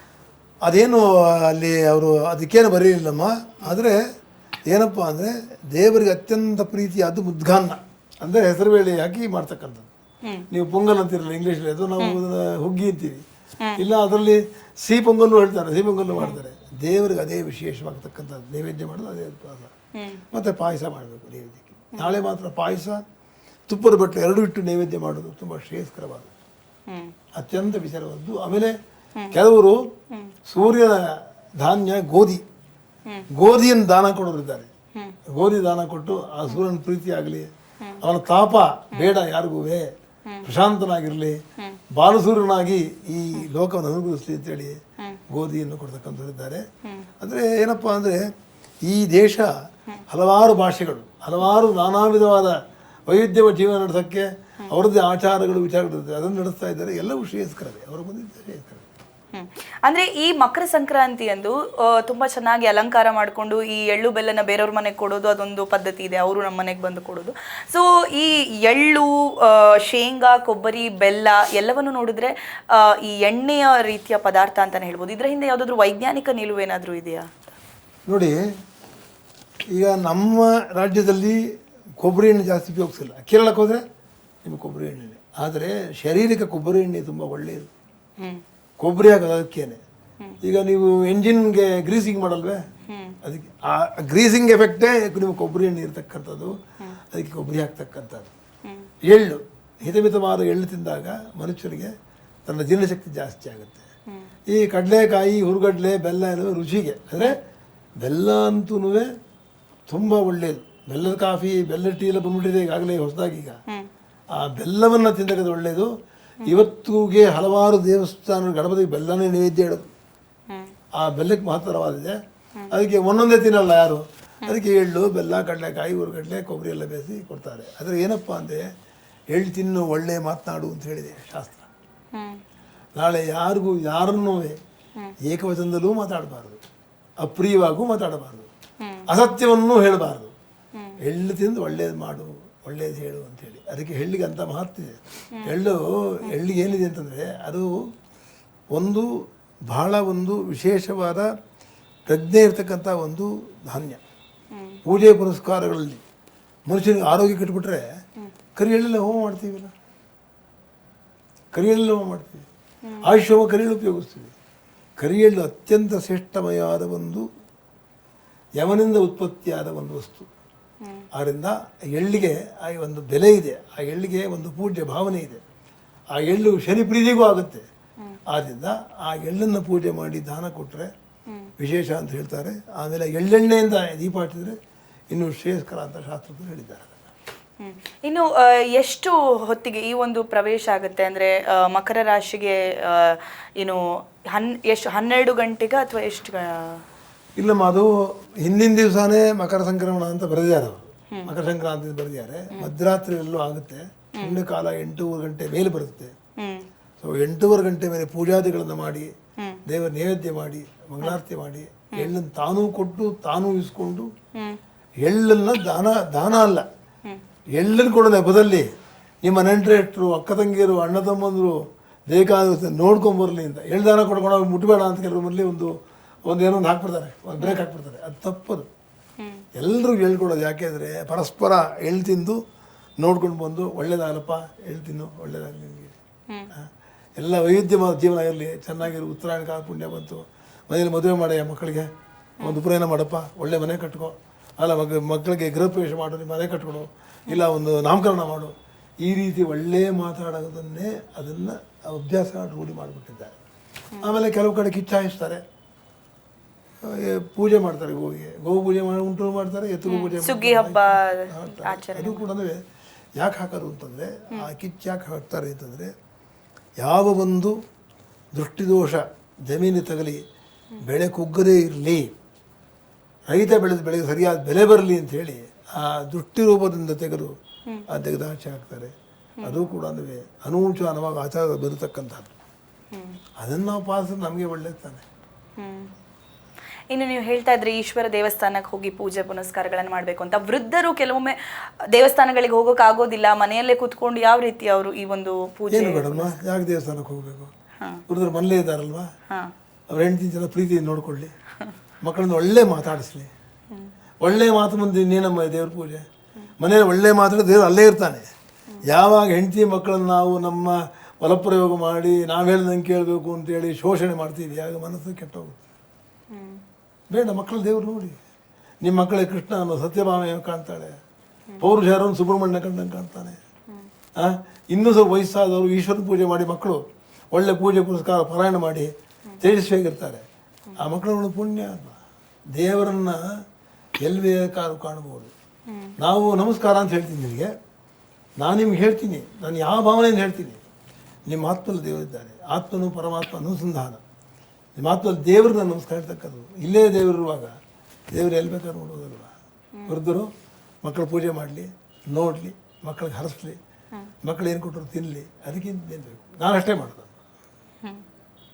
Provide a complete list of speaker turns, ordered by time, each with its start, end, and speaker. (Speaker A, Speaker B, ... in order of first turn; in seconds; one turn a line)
Speaker A: 0.7-4.0
Speaker A: 4.7-9.9
Speaker A: 10.5-13.2
Speaker A: 13.8-19.7
Speaker B: 20.0-20.2
Speaker A: 20.3-23.0
Speaker A: 23.7-26.3
Speaker B: 26.9-27.1
Speaker A: 27.4-28.8
Speaker A: 29.3-29.9
Speaker A: 30.5-32.4
Speaker A: 33.3-34.7
Speaker A: 35.3-37.5
Speaker A: 38.0-39.9
Speaker A: 40.4-41.4
Speaker A: 41.9-46.6
Speaker B: 46.8-47.1
Speaker A: 47.2-48.2
Speaker A: 48.8-49.5
Speaker A: 50.1-52.6
Speaker A: 53.1-58.9
Speaker B: 59.3-77.3
Speaker A: 78.1-78.4
Speaker A: 79.7-81.4
Speaker A: 82.0-83.8
Speaker A: 84.4-87.7
Speaker A: 88.8-89.8
Speaker A: 90.4-92.6
Speaker B: 92.9-93.2
Speaker A: 93.2-98.3
Speaker A: 99.0-101.9
Speaker A: 102.5-103.9
Speaker A: 104.5-107.4
Speaker A: 108.0-109.1
Speaker A: 109.9-113.6
Speaker A: 114.3-115.9
Speaker A: 116.4-119.9
Speaker A: 121.0-122.2
Speaker A: 122.7-128.6
Speaker A: 129.3-131.7
Speaker B: 132.1-132.4
Speaker A: 132.9-134.6
Speaker A: 135.2-136.6
Speaker A: 137.2-138.5
Speaker B: 138.8-139.1
Speaker A: 139.1-140.3
Speaker A: 141.0-147.8
Speaker A: 148.7-149.1
Speaker A: 149.7-151.3
Speaker A: 152.1-154.0
Speaker B: 154.5-154.8
Speaker A: 154.8-156.0
Speaker A: 156.7-157.9
Speaker A: 158.6-159.7
Speaker A: 161.5-162.5
Speaker B: 162.8-163.1
Speaker A: 163.0-164.3
Speaker A: 165.0-167.3
Speaker A: 168.6-170.3
Speaker A: 171.1-175.4
Speaker A: 176.1-177.7
Speaker A: 178.3-180.9
Speaker A: 181.6-184.6
Speaker A: 185.1-187.1
Speaker B: 187.6-196.8
Speaker A: 197.4-206.1
Speaker B: 206.4-206.7
Speaker A: 207.0-209.1
Speaker A: 209.7-214.1
Speaker A: 215.0-216.7
Speaker A: 217.6-218.7
Speaker A: 219.2-225.7
Speaker A: 226.2-228.7
Speaker B: 229.2-229.5
Speaker A: 229.6-232.4
Speaker A: 233.0-235.9
Speaker A: 236.5-241.9
Speaker A: 242.4-253.4
Speaker A: 254.0-255.4
Speaker A: 256.8-262.6
Speaker B: 259.9-262.2
Speaker A: 263.2-265.9
Speaker A: 266.8-267.6
Speaker A: 268.3-270.2
Speaker A: 270.8-272.1
Speaker A: 273.3-277.4
Speaker A: 277.9-282.3
Speaker B: 282.9-283.2
Speaker A: 283.4-285.0
Speaker B: 285.6-285.9
Speaker B: 286.9-296.4
Speaker A: 295.7-297.5
Speaker A: 298.1-299.1
Speaker A: 299.9-301.3
Speaker A: 302.0-303.3
Speaker A: 304.2-306.0
Speaker A: 306.6-308.3
Speaker A: 308.9-315.7
Speaker B: 316.3-316.6
Speaker A: 317.1-318.2
Speaker A: 318.8-321.0
Speaker A: 321.6-323.4
Speaker A: 324.2-330.2
Speaker A: 330.8-332.0
Speaker A: 332.6-333.2
Speaker A: 334.0-335.3
Speaker B: 335.7-335.9
Speaker A: 336.0-337.5
Speaker A: 338.4-340.7
Speaker A: 341.3-344.0
Speaker A: 344.8-347.5
Speaker A: 348.1-349.3
Speaker A: 349.9-350.3
Speaker A: 350.8-353.6
Speaker A: 354.2-357.1